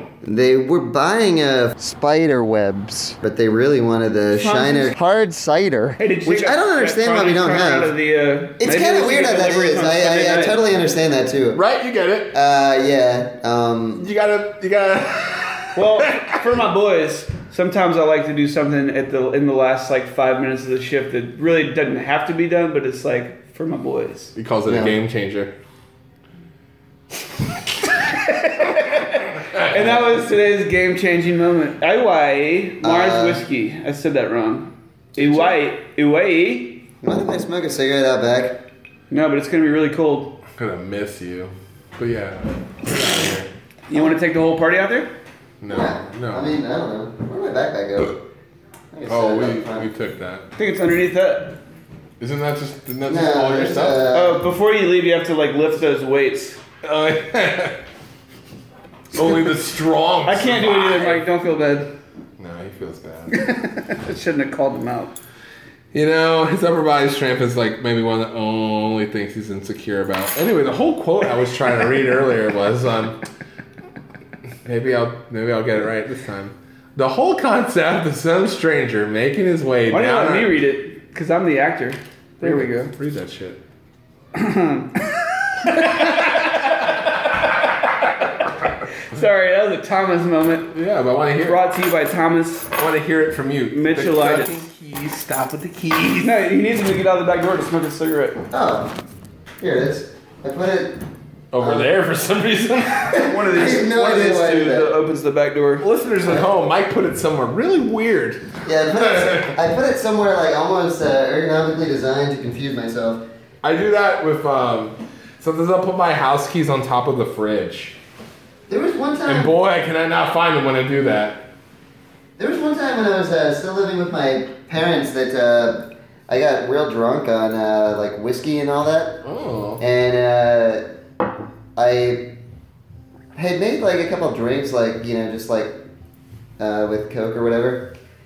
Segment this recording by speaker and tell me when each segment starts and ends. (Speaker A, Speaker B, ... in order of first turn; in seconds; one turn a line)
Speaker A: 0.2-8.0
Speaker B: 4.4-4.9
Speaker B: 6.0-10.6
Speaker A: 8.6-11.6
Speaker C: 11.5-12.3
Speaker A: 12.3-14.1
Speaker C: 14.0-16.3
Speaker B: 15.8-24.4
Speaker C: 24.4-25.5
Speaker A: 24.7-24.9
Speaker C: 29.5-29.8
Speaker B: 29.7-36.9
Speaker A: 32.8-33.4
Speaker A: 37.0-38.6
Speaker B: 39.1-40.4
Speaker C: 40.5-43.5
Speaker B: 43.9-45.1
Speaker C: 45.6-46.5
Speaker A: 45.7-48.2
Speaker A: 48.9-49.9
Speaker C: 49.1-50.5
Speaker B: 50.6-51.6
Speaker C: 52.2-54.1
Speaker A: 53.1-54.4
Speaker B: 54.1-56.6
Speaker C: 56.8-57.8
Speaker B: 59.1-59.6
Speaker C: 59.1-61.2
Speaker B: 60.3-61.9
Speaker C: 62.4-63.4
Speaker B: 63.3-65.2
Speaker C: 65.9-73.2
Speaker C: 74.7-80.5
Speaker B: 79.9-82.9
Speaker C: 82.4-83.6
Speaker B: 84.3-84.9
Speaker B: 85.7-86.1
Speaker C: 85.8-86.5
Speaker B: 89.1-90.7
Speaker C: 90.7-91.6
Speaker B: 91.5-92.7
Speaker C: 92.8-96.5
Speaker B: 93.7-94.5
Speaker B: 96.2-98.4
Speaker A: 98.5-99.0
Speaker A: 99.6-101.0
Speaker C: 101.5-103.2
Speaker A: 101.6-101.9
Speaker A: 103.1-105.0
Speaker B: 103.3-105.9
Speaker C: 105.8-109.5
Speaker A: 108.7-113.2
Speaker C: 113.6-118.0
Speaker A: 118.7-119.5
Speaker C: 119.3-121.4
Speaker A: 122.4-129.2
Speaker C: 129.2-129.8
Speaker A: 129.8-130.8
Speaker A: 131.8-132.3
Speaker A: 133.3-135.8
Speaker A: 136.6-137.9